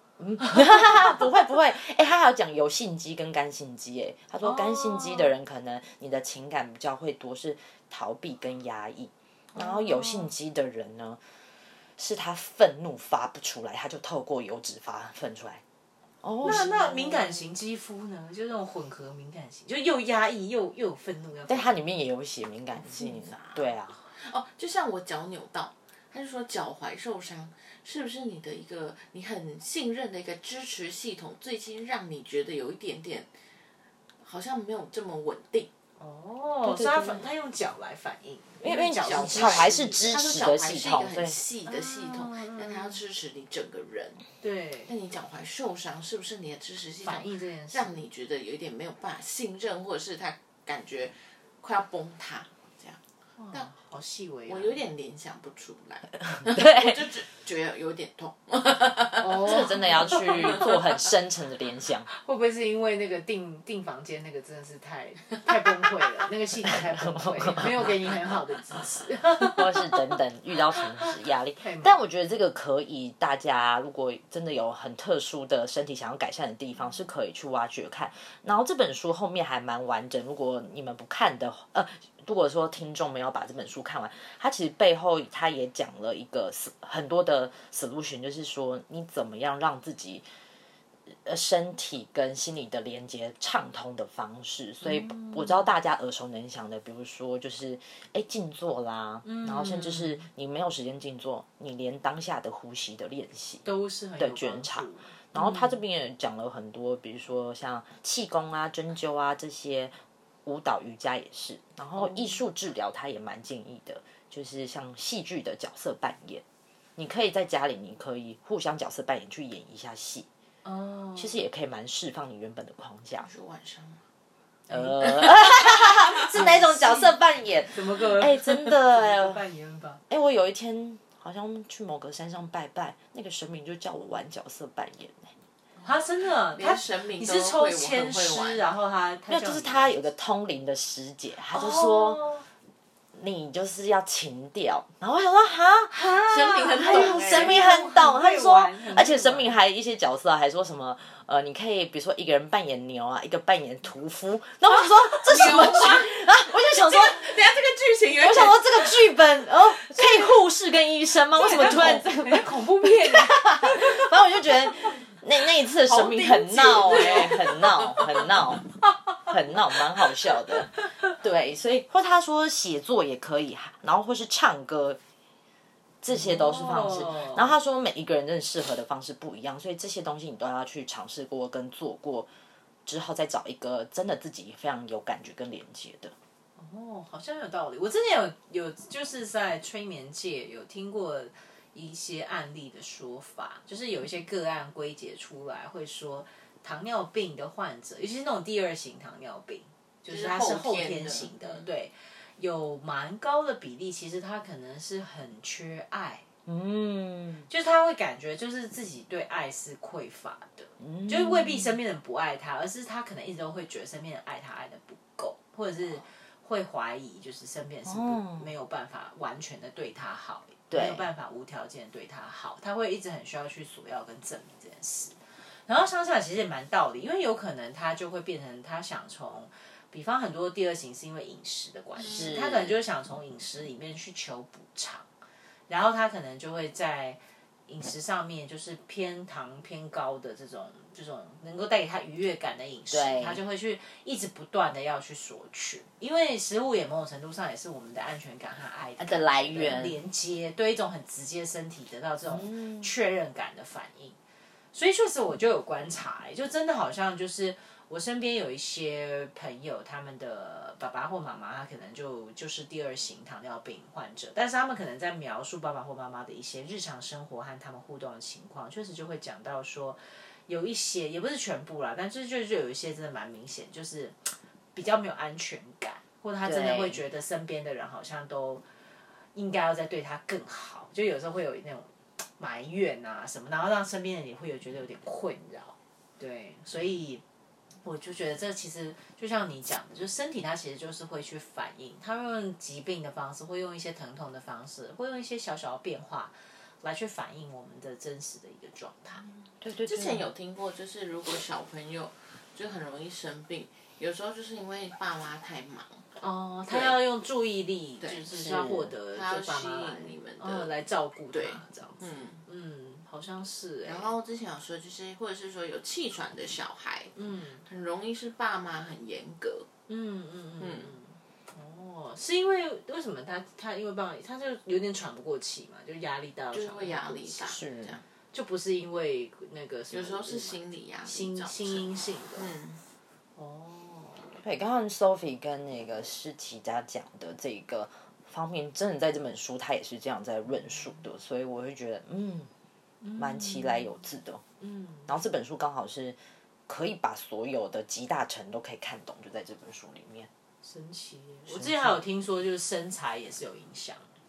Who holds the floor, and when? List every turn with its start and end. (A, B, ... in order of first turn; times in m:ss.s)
0:00.2-0:11.2 A
0:00.4-0:01.2 B
0:04.4-0:05.3 B
0:09.6-0:10.3 B
0:12.0-0:15.6 A
0:16.2-0:17.3 A
0:16.4-0:21.8 B
0:21.5-0:24.0 A
0:23.0-0:33.3 C
0:34.2-0:35.7 C
0:36.0-0:40.1 B
0:36.6-0:37.3 A
0:38.6-0:41.4 A
0:38.7-0:44.2 C
0:41.7-0:43.0 B
0:44.4-0:44.9 B
0:44.9-0:53.0 C
0:47.0-0:48.0 B
0:53.4-0:54.8 B
0:54.5-1:00.7 C
0:56.4-0:57.1 A
0:59.2-1:00.8 B
0:59.3-1:02.1 A
1:02.2-1:10.0 B
1:06.7-1:07.9 A
1:09.4-1:30.2 A
1:10.8-1:11.1 B
1:11.6-1:12.0 B
1:31.2-1:43.6 A
1:34.8-1:35.7 B
1:39.2-1:40.3 B
1:43.6-1:45.8 B
1:44.2-1:49.9 A
1:50.4-1:56.4 A
1:52.0-1:52.3 B
1:57.0-2:00.3 A
2:00.6-2:01.4 B
2:01.2-2:03.3 A
2:03.2-2:04.0 C
2:04.7-2:07.2 B
2:04.7-2:09.4 A
2:07.7-2:10.0 B
2:10.1-2:15.3 A
2:15.8-2:20.0 B
2:16.5-2:18.7 C
2:19.3-2:22.2 A
2:21.5-2:22.4 B
2:23.2-2:37.4 A
2:25.9-2:29.5 B
2:26.2-2:27.6 C
2:35.1-2:36.2 C
2:36.7-2:39.1 C
2:38.2-2:48.7 A
2:41.4-2:44.1 B
2:45.9-2:47.8 C
2:46.7-2:47.4 B
2:49.3-2:55.0 A
2:56.0-3:02.3 A
2:56.1-2:57.5 B
3:02.9-3:06.1 A
3:06.6-3:26.2 B
3:20.1-3:21.7 C
3:26.5-3:27.5 A
3:27.5-3:55.1 B
3:30.8-3:31.8 A
3:37.9-3:38.5 A
3:40.7-3:41.1 A
3:52.0-3:52.5 C
3:52.0-3:52.8 A
3:55.7-4:14.2 B
4:02.9-4:03.4 A
4:09.0-4:10.0 A
4:12.3-4:12.9 A
4:14.7-4:34.2 B
4:34.8-4:38.6 B
4:36.4-4:37.0 A
4:39.4-4:47.2 B
4:47.8-4:59.2 B
4:59.6-5:00.3 A
4:59.8-5:06.1 C
5:06.2-5:14.1 B
5:06.7-5:07.0 C
5:08.3-5:08.9 A
5:09.1-5:10.7 C
5:11.3-5:12.4 C
5:13.8-5:17.1 C
5:17.2-5:17.6 B
5:17.6-5:19.7 C
5:19.9-5:27.4 B
5:20.6-5:20.9 C
5:26.5-5:28.0 C
5:27.4-5:28.0 A
5:28.3-5:32.5 B
5:29.9-5:32.8 C
5:33.4-5:34.4 B
5:34.4-5:42.5 A
5:43.0-5:43.9 B
5:43.2-5:44.4 A
5:44.6-5:45.1 B
5:45.1-5:50.3 A
5:50.6-5:54.1 B
5:51.5-5:52.0 A